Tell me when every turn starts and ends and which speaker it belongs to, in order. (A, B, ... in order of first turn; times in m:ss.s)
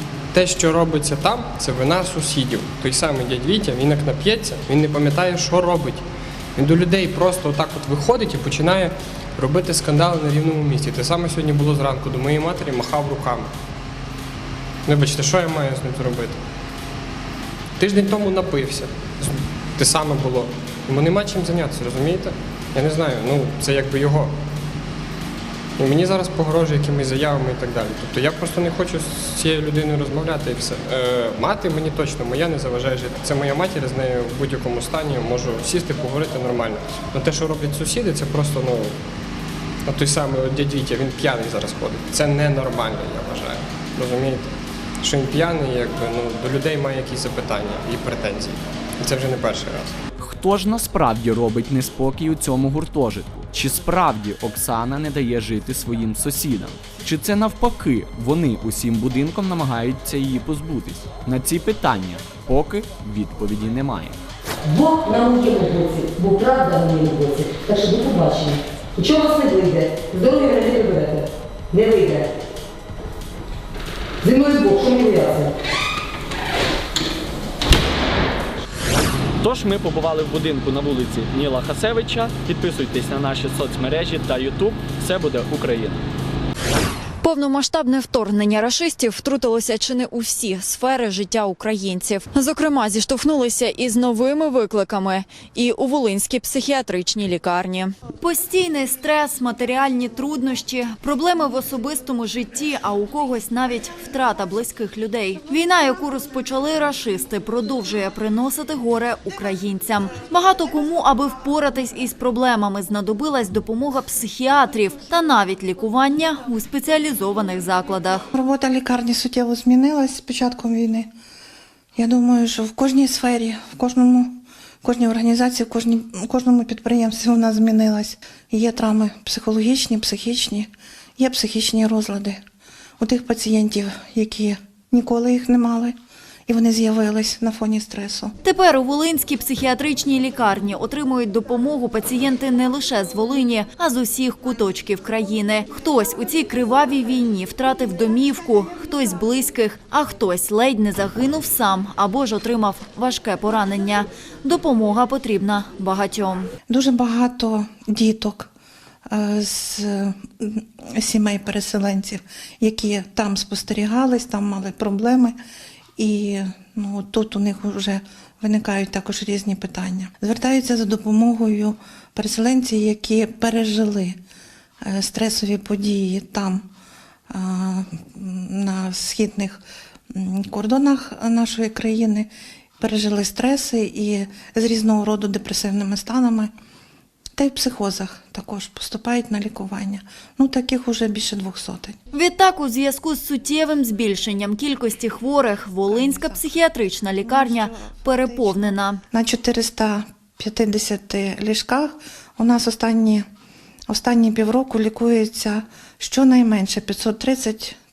0:00.3-0:13.5 A
0:14.8-0:16.4 A
0:17.8-0:24.3 A
0:25.8-0:39.0 A
0:39.9-0:50.0 A
0:50.2-1:04.2 B
1:04.6-1:12.3 C
1:14.2-1:15.5 C
1:19.4-1:26.0 D
1:27.2-1:58.3 E
1:58.3-2:01.1 F
2:02.0-2:12.4 F
2:13.0-2:16.0 F
2:16.5-2:18.3 F
2:18.4-2:36.5 E
2:36.7-2:38.5 F
2:39.1-2:45.4 F
2:46.0-2:54.2 F
2:54.8-2:56.6 F
2:57.3-2:59.6 F
3:00.1-3:06.5 F
3:07.4-3:12.0 F
3:12.1-3:19.0 E
3:15.9-3:16.5 F
3:17.2-3:23.2 F
3:23.9-3:27.8 F